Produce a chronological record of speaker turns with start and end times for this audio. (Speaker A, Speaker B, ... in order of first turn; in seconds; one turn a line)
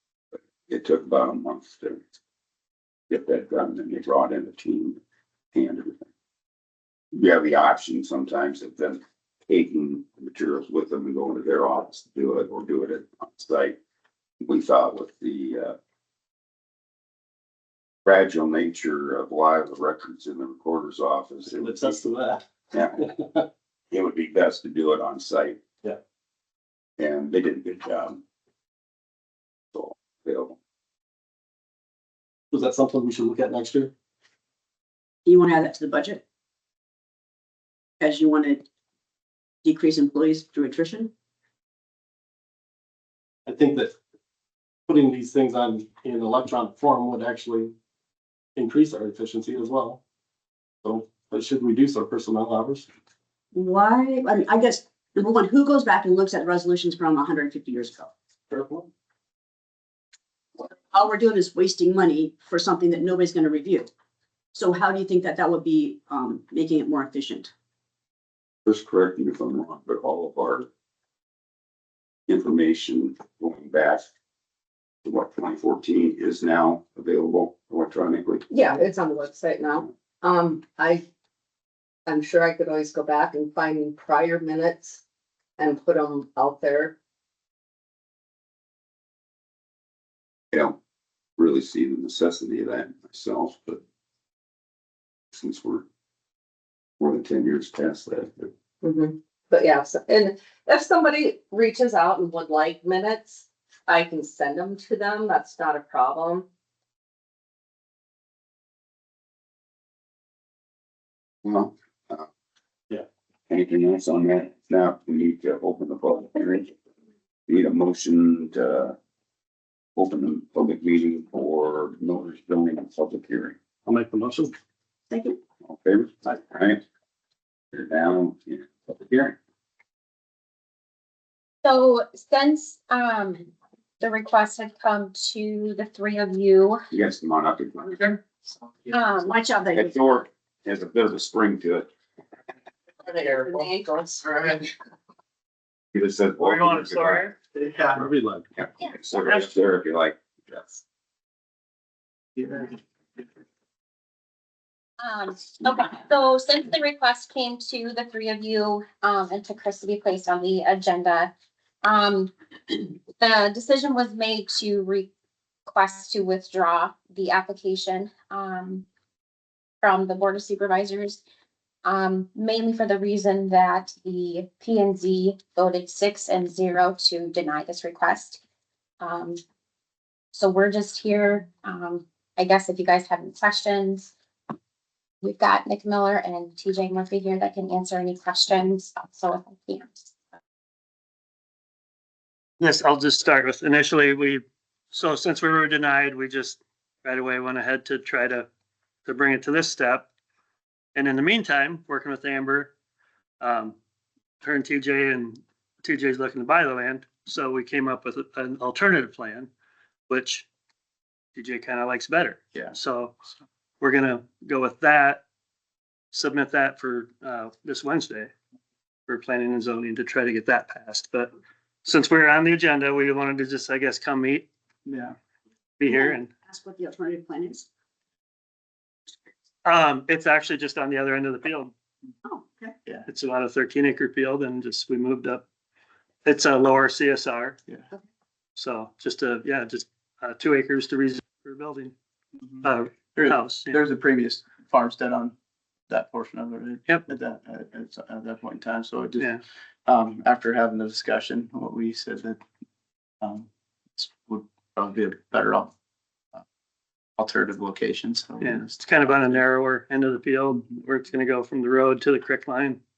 Speaker A: 0.3-2.0
Speaker A: 3.1-5.0
Speaker A: 5.5-6.0
Speaker A: 7.1-13.8
Speaker A: 14.4-15.8
Speaker A: 18.1-22.1
Speaker B: 21.5-22.4
Speaker A: 22.7-23.1
Speaker B: 23.0-23.4
Speaker A: 23.9-25.6
Speaker A: 27.0-28.2
Speaker A: 29.7-30.6
Speaker B: 32.5-33.9
Speaker C: 35.2-36.2
Speaker C: 38.0-38.6
Speaker C: 39.6-41.1
Speaker B: 43.5-43.9
Speaker B: 44.9-47.7
Speaker B: 48.6-50.0
Speaker B: 50.8-52.9
Speaker C: 53.5-58.1
Speaker B: 58.5-58.9
Speaker C: 60.6-63.9
Speaker C: 64.5-67.5
Speaker A: 68.7-70.7
Speaker A: 72.3-74.0
Speaker A: 75.0-78.4
Speaker D: 78.5-81.0
Speaker D: 82.1-85.0
Speaker D: 85.6-86.9
Speaker A: 91.4-93.8
Speaker A: 95.3-95.9
Speaker A: 97.0-98.5
Speaker D: 98.8-106.5
Speaker A: 111.4-112.3
Speaker A: 113.5-116.7
Speaker A: 117.5-119.0
Speaker A: 120.0-123.6
Speaker B: 123.9-124.5
Speaker C: 125.1-125.4
Speaker A: 125.7-126.8
Speaker A: 127.7-129.4
Speaker E: 131.6-136.8
Speaker A: 136.9-138.2
Speaker E: 138.9-139.3
Speaker C: 139.3-139.9
Speaker A: 139.7-141.9
Speaker D: 143.1-144.5
Speaker A: 145.9-147.3
Speaker F: 146.4-147.4
Speaker G: 147.6-148.0
Speaker B: 147.9-148.5
Speaker A: 148.6-150.6
Speaker G: 152.4-152.7
Speaker E: 155.0-161.3
Speaker E: 161.8-165.1
Speaker E: 165.7-168.9
Speaker E: 169.8-171.2
Speaker E: 171.8-178.4
Speaker E: 179.0-179.4
Speaker E: 180.3-184.1
Speaker E: 185.2-190.1
Speaker F: 192.6-198.5
Speaker F: 199.1-200.1
Speaker F: 200.9-202.7
Speaker F: 203.4-203.8
Speaker F: 204.4-209.5
Speaker F: 210.1-210.5
Speaker F: 211.3-213.1
Speaker F: 213.8-215.2
Speaker F: 216.1-218.3
Speaker F: 219.1-221.3
Speaker F: 221.8-224.5
Speaker G: 224.9-225.2
Speaker F: 225.8-226.3
Speaker C: 225.9-227.7
Speaker F: 229.7-231.7
Speaker C: 232.2-232.8
Speaker F: 233.1-235.4
Speaker F: 236.2-237.6
Speaker F: 238.6-241.9
Speaker G: 242.4-245.3
Speaker F: 242.6-243.8
Speaker G: 245.9-249.3
Speaker G: 249.9-252.4
Speaker G: 253.2-255.7
Speaker G: 257.2-259.4
Speaker F: 258.4-262.8